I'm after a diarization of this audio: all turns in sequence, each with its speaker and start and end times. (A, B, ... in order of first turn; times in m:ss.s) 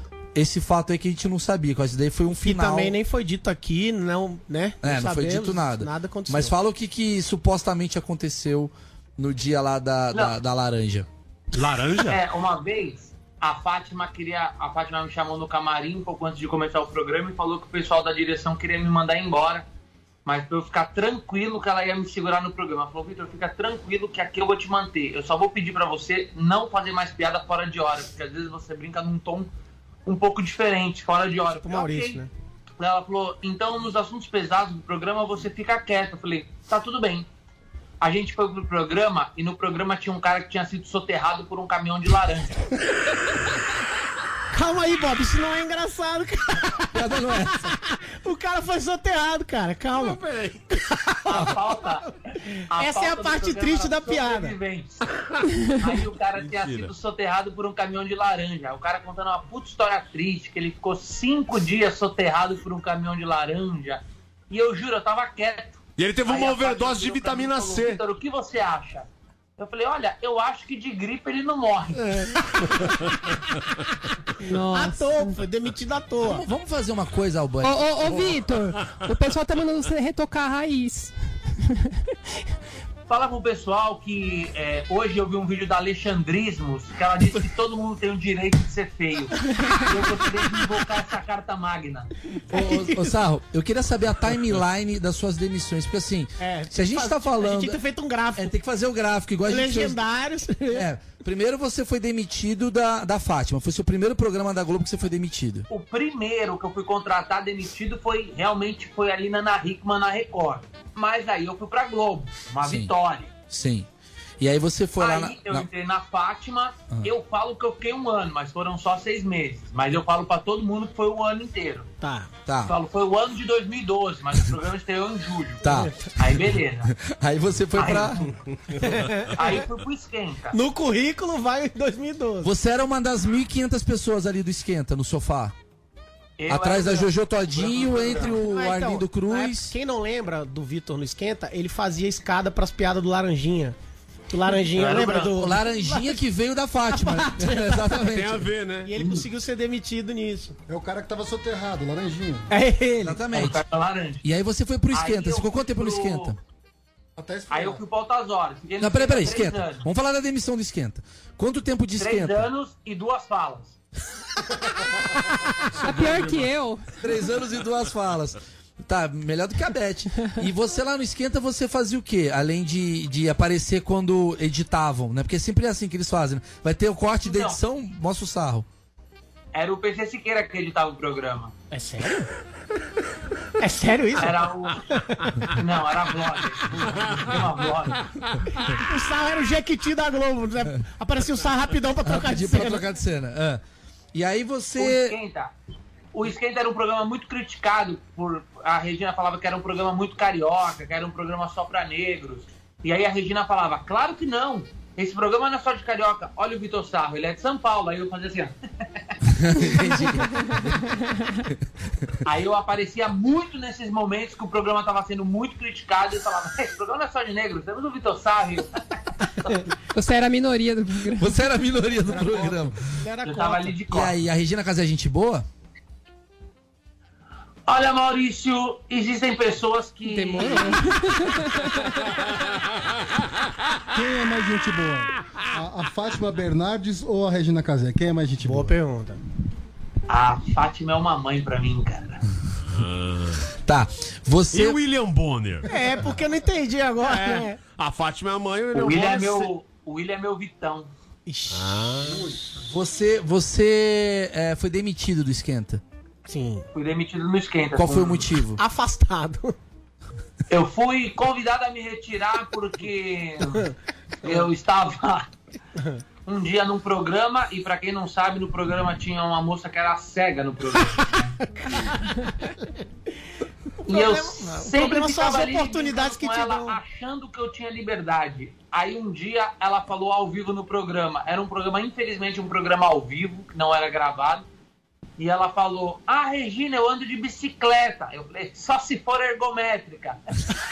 0:00.3-0:02.9 A
0:02.4-0:06.5 B
0:04.8-0:11.1 A
0:11.5-0:12.2 C
0:12.0-0:19.6 D
0:20.2-0:29.5 D
0:30.0-0:32.2 D
0:31.6-0:32.3 B
0:32.8-0:37.2 D
0:38.0-0:42.7 D
0:44.5-0:50.2 B
0:46.9-0:47.7 A
0:49.9-0:50.8 C
0:50.8-0:51.6 B
0:51.3-0:52.1 D
0:52.7-0:55.1 D
0:52.8-0:54.5 B
0:55.6-1:09.0 D
0:56.4-0:56.9 C
1:06.0-1:08.0 C
1:09.6-1:12.4 D
1:12.0-1:12.4 B
1:14.4-1:15.4 E
1:14.7-1:16.4 B
1:16.2-1:17.9 A
1:17.6-1:21.7 E
1:18.1-1:19.0 C
1:23.1-1:32.1 D
1:32.5-1:37.8 A
1:32.5-1:33.0 B
1:36.4-1:38.5 B
1:38.4-1:40.0 A
1:39.4-1:40.8 B
1:40.7-1:45.6 A
1:45.7-1:53.3 D
1:52.6-1:52.9 A
1:53.5-1:53.9 A
1:54.4-1:55.7 A
1:55.0-2:01.8 D
2:02.0-2:02.3 B
2:02.4-2:02.7 A
2:02.6-2:06.9 D
2:05.6-2:08.3 A
2:05.6-2:05.9 B
2:07.7-2:08.2 D
2:08.8-2:09.6 B
2:09.3-2:10.6 D
2:10.5-2:12.5 B
2:12.4-2:15.5 A
2:16.4-2:18.4 D
2:16.5-2:19.7 A
2:18.2-2:23.8 B
2:24.3-2:26.2 B
2:24.7-2:25.3 C
2:25.2-2:28.5 A
2:26.9-2:28.0 B
2:28.0-2:28.9 C
2:28.8-2:30.5 B
2:29.0-2:29.2 D
2:30.7-2:32.5 F
2:32.5-2:33.2 B
2:33.0-2:33.6 A
2:33.3-2:34.2 D
2:34.2-2:36.4 A
2:34.9-2:36.3 D
2:37.2-2:37.8 F
2:37.5-2:39.8 D
2:38.8-2:42.4 A
2:42.0-2:43.8 D
2:45.8-2:46.8 E
2:45.8-2:46.5 C
2:47.0-2:58.6 A
2:57.2-2:57.6 D
2:59.5-3:01.5 D
3:01.7-3:02.3 B
3:03.6-3:05.5 B
3:04.2-3:04.8 D
3:05.5-3:08.0 D
3:06.8-3:08.0 C
3:08.7-3:12.8 B
3:12.0-3:13.6 A
3:14.1-3:15.2 A
3:14.8-3:15.5 D
3:16.1-3:28.5 D
3:29.3-3:30.8 A
3:30.6-3:31.4 E
3:31.5-3:32.1 A
3:32.2-3:39.6 D
3:39.9-3:41.4 E
3:41.2-3:42.8 A
3:42.0-3:43.8 B
3:43.2-3:44.1 D
3:43.9-3:45.4 A
3:47.7-3:50.9 D
3:50.0-3:52.1 E
3:53.9-3:58.7 F
3:58.4-3:59.2 B
4:00.1-4:02.2 D
4:02.7-4:03.5 C
4:03.6-4:04.8 A
4:04.5-4:05.7 C
4:05.7-4:07.6 B
4:07.0-4:09.5 C
4:08.7-4:10.9 D
4:11.2-4:12.3 B
4:11.5-4:12.4 C
4:12.7-4:15.8 A
4:16.2-4:16.6 B
4:16.7-4:18.2 D
4:17.8-4:18.6 A
4:17.9-4:19.5 B
4:20.5-4:23.6 D
4:24.2-4:25.3 D
4:26.2-4:31.2 D
4:31.6-4:32.1 B
4:33.8-4:36.8 B
4:33.9-4:44.4 D
4:45.2-4:50.2 D